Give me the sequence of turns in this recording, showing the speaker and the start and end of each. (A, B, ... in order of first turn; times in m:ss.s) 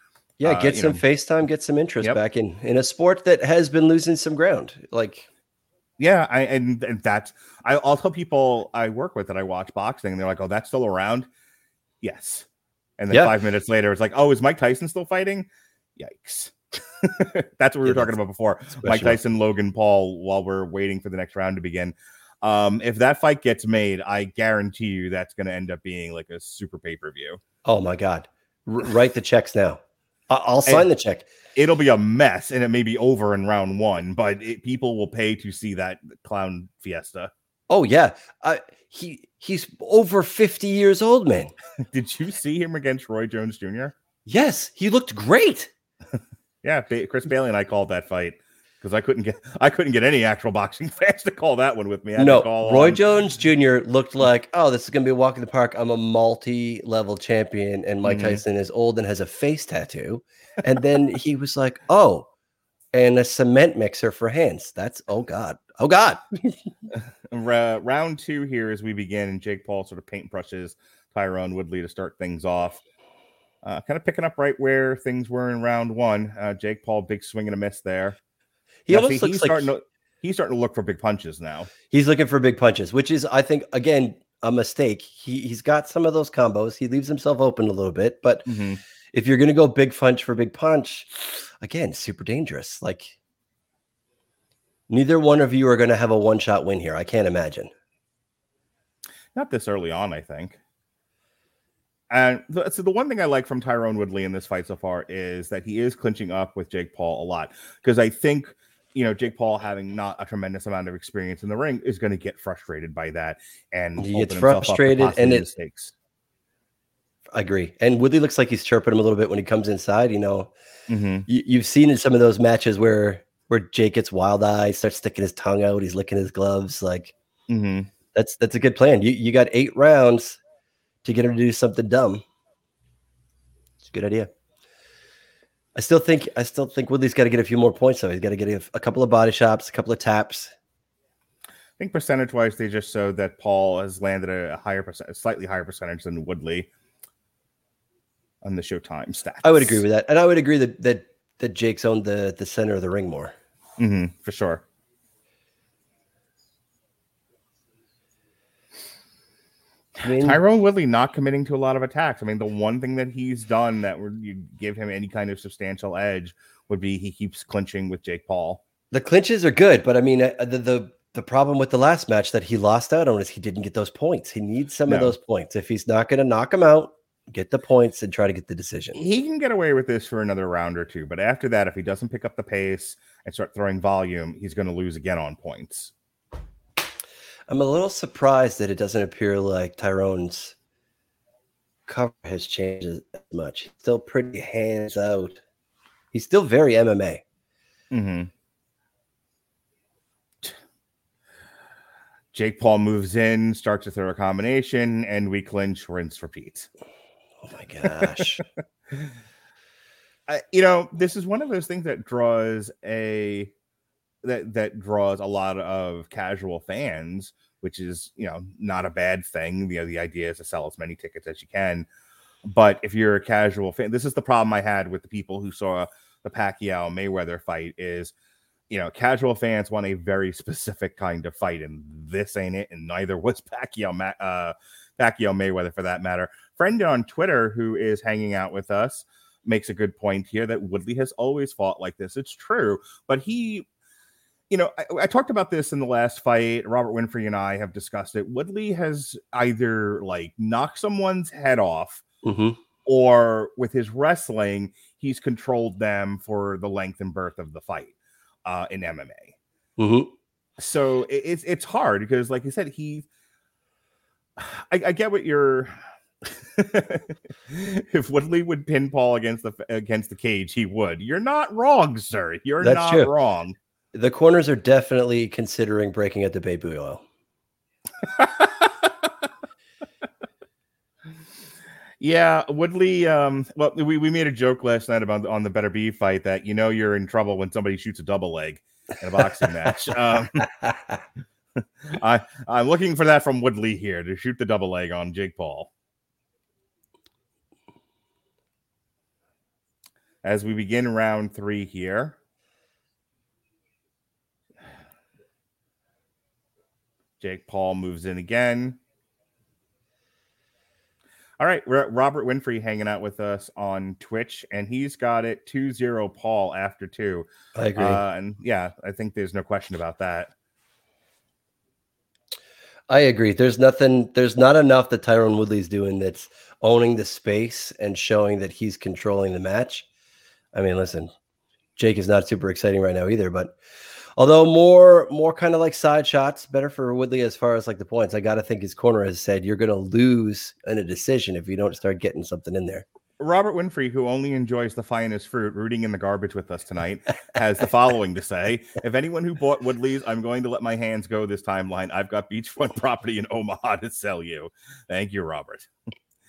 0:00.4-0:05.3 A
0:00.4-0:01.0 B
0:06.0-0:11.3 B
0:12.0-0:12.5 B
0:13.0-0:27.4 B
0:17.9-0:18.1 A
0:18.7-0:19.2 A
0:27.6-0:31.3 A
0:31.6-0:37.3 B
0:37.7-0:41.5 A
0:41.8-0:44.0 B
0:44.3-0:45.7 A
0:46.6-0:53.0 B
0:52.2-1:02.3 A
0:58.0-0:58.4 B
1:02.9-1:06.6 A
1:06.9-1:12.8 B
1:13.6-1:18.2 B
1:18.9-1:19.7 A
1:18.9-1:21.7 B
1:21.9-1:28.5 A
1:28.5-1:28.8 B
1:29.1-1:33.2 A
1:34.9-1:37.7 A
1:39.4-1:40.6 B
1:42.1-1:55.9 B
1:54.0-1:55.5 A
1:57.3-2:00.5 A
2:00.9-2:01.3 B
2:01.3-2:07.1 A
2:07.5-2:07.9 B
2:08.1-2:10.4 A
2:11.0-2:12.2 A
2:13.8-2:14.3 A
2:15.8-2:20.5 A
2:21.8-2:26.7 B
2:28.4-2:29.8 B
2:29.4-2:33.3 A
2:33.8-2:34.6 B
2:40.0-2:40.4 A
2:40.1-2:48.6 B
2:48.9-2:59.0 A
2:54.9-2:55.2 B
2:59.0-3:05.9 B
3:07.5-3:10.6 A
3:11.9-3:15.4 A
3:16.1-3:17.2 A
3:17.9-3:18.3 B
3:22.3-3:26.7 B
3:27.4-3:28.4 A
3:27.9-3:29.1 B
3:30.3-3:33.5 B
3:34.2-3:41.9 B
3:42.4-3:48.1 B
3:48.7-4:03.7 B
4:04.5-4:12.0 B
4:12.2-4:12.6 A
4:12.8-4:17.9 B
4:18.4-4:19.4 B
4:19.8-4:20.1 A
4:20.6-4:23.1 B
4:24.4-4:33.6 B
4:32.6-4:33.1 A
4:33.9-4:37.0 A
4:38.0-4:38.9 B
4:42.0-4:50.7 B
4:51.6-4:55.7 B
5:00.2-5:02.2 B
5:07.2-5:08.8 B
5:11.4-5:20.3 B
5:17.6-5:18.0 A
5:22.9-5:29.9 A
5:30.5-5:31.1 A
5:31.8-5:33.6 A
5:34.2-5:42.8 A
5:43.2-5:55.7 B